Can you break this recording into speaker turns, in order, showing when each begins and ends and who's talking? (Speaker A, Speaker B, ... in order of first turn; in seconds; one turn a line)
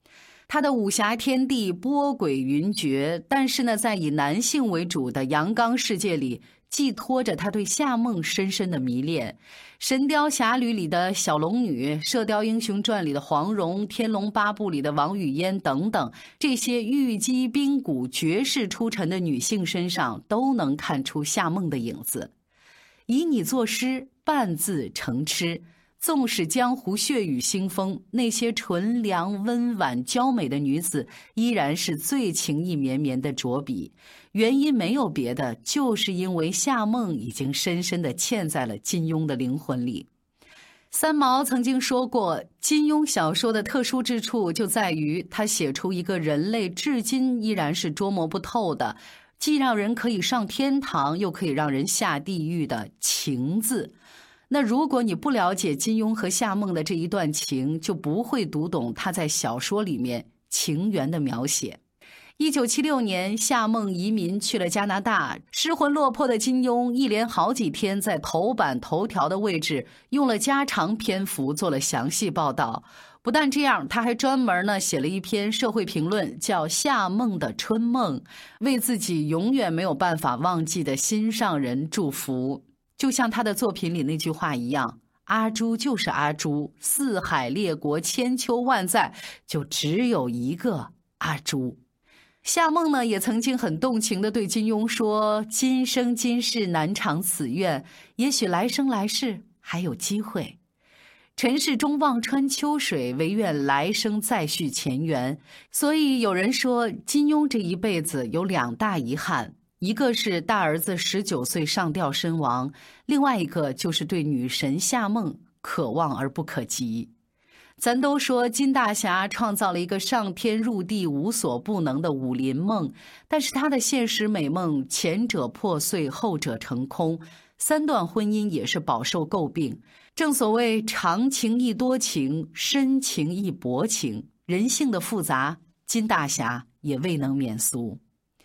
Speaker A: 0.5-22.3
Speaker A: 23.1-40.1
Speaker A: 40.9-53.9
Speaker A: 54.5-61.8
Speaker A: 62.4-91.8
Speaker A: 92.4-100.6
Speaker A: 101.3-117.1
Speaker A: 117.8-138.0